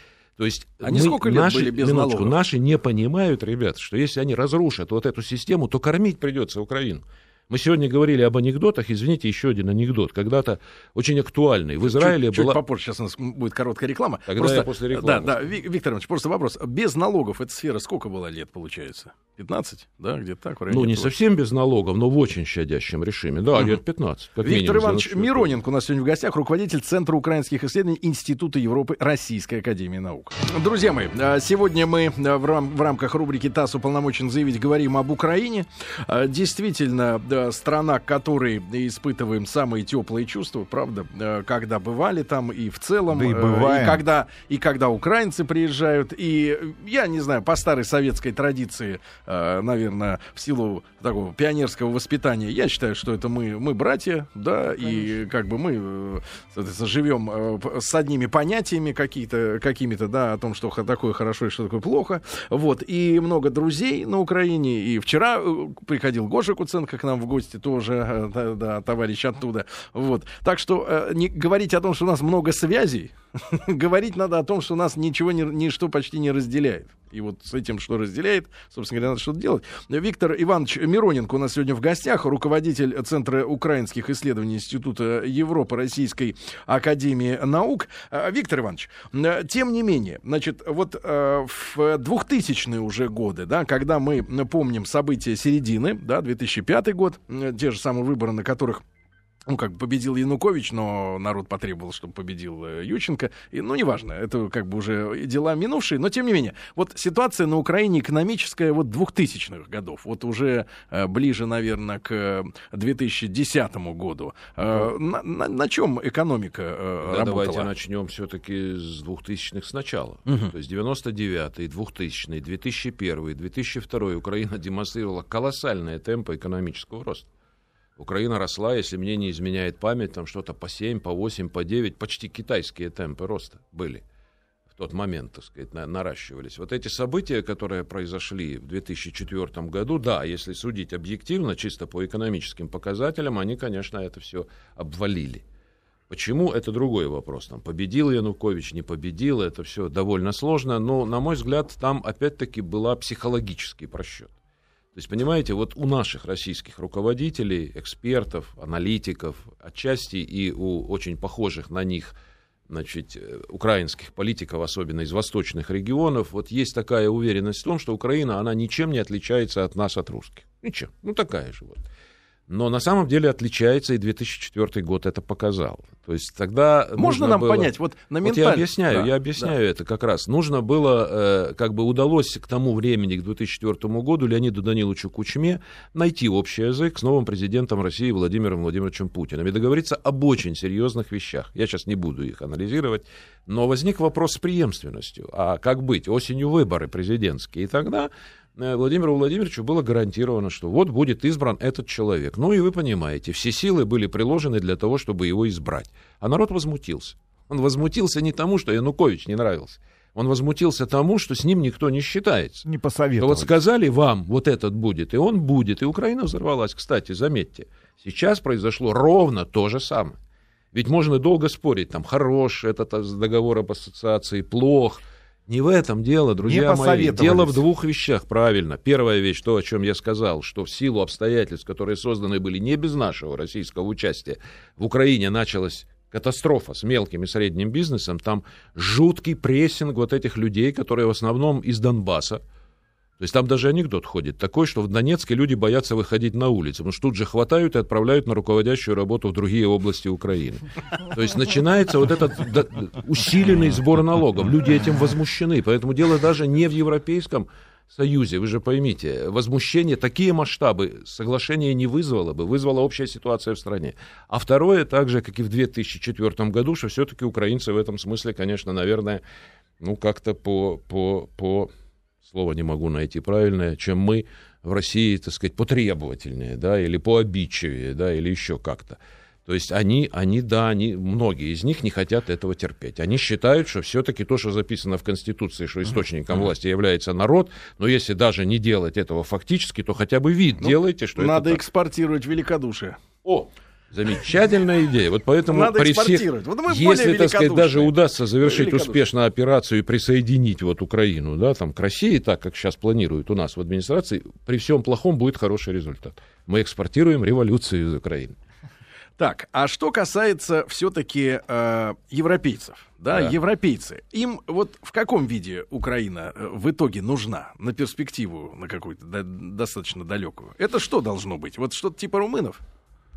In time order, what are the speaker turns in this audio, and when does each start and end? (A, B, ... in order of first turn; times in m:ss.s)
0:00.4-0:12.6 A
0:00.8-0:02.3 B
0:11.8-0:21.1 B
0:14.3-0:15.4 A
0:20.7-0:25.5 A
0:24.4-1:38.8 B
0:43.1-0:44.0 C
1:39.5-1:57.7 B
1:57.0-2:07.3 A
2:08.0-2:14.0 A
2:14.7-2:25.4 A
2:26.1-2:34.3 A
2:34.9-2:42.1 A
2:42.7-2:51.8 A
2:52.5-2:57.7 A
2:57.0-2:59.5 B
2:58.2-3:32.6 A
3:32.6-3:33.5 C
3:33.2-3:40.2 A
3:40.7-4:02.4 A
3:46.4-3:47.6 C
4:03.2-4:29.2 A
4:29.8-4:31.7 A
4:32.2-4:51.6 A
4:50.6-4:53.0 B
4:53.2-5:08.3 A
4:55.5-4:59.0 B
5:09.2-5:22.6 B